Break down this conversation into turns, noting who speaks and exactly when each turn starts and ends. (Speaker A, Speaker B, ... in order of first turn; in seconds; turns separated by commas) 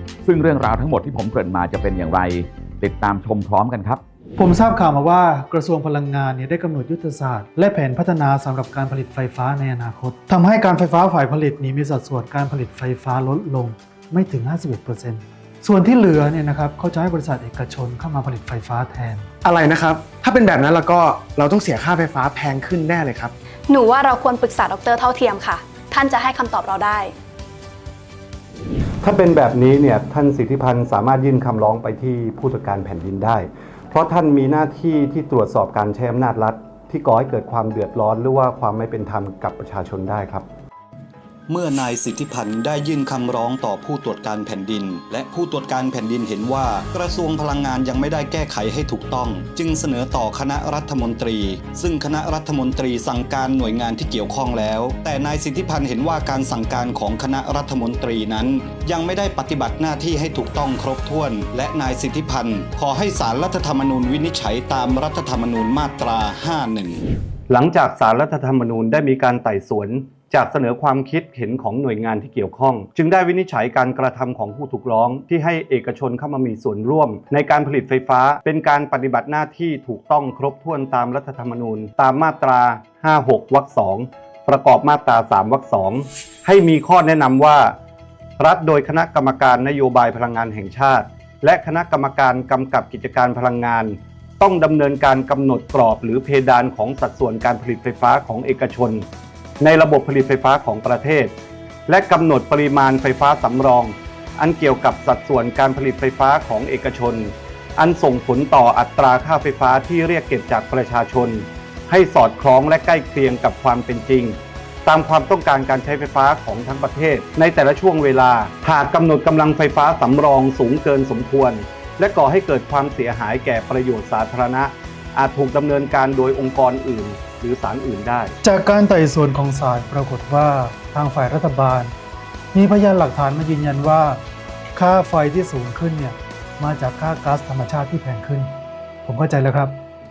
Speaker A: 0.2-4.0, Speaker B: 4.4-19.2, Speaker C: 19.4-23.3, Speaker D: 23.7-27.1, Speaker E: 29.0-40.5, Speaker F: 41.5-67.0, Speaker E: 67.5-87.8, Speaker E: 88.4-99.0, Speaker E: 99.6-101.3, Speaker E: 101.9-128.3, Speaker B: 128.4-131.9, Speaker B: 132.5-134.2, Speaker B: 134.7-138.5, Speaker B: 139.0-139.8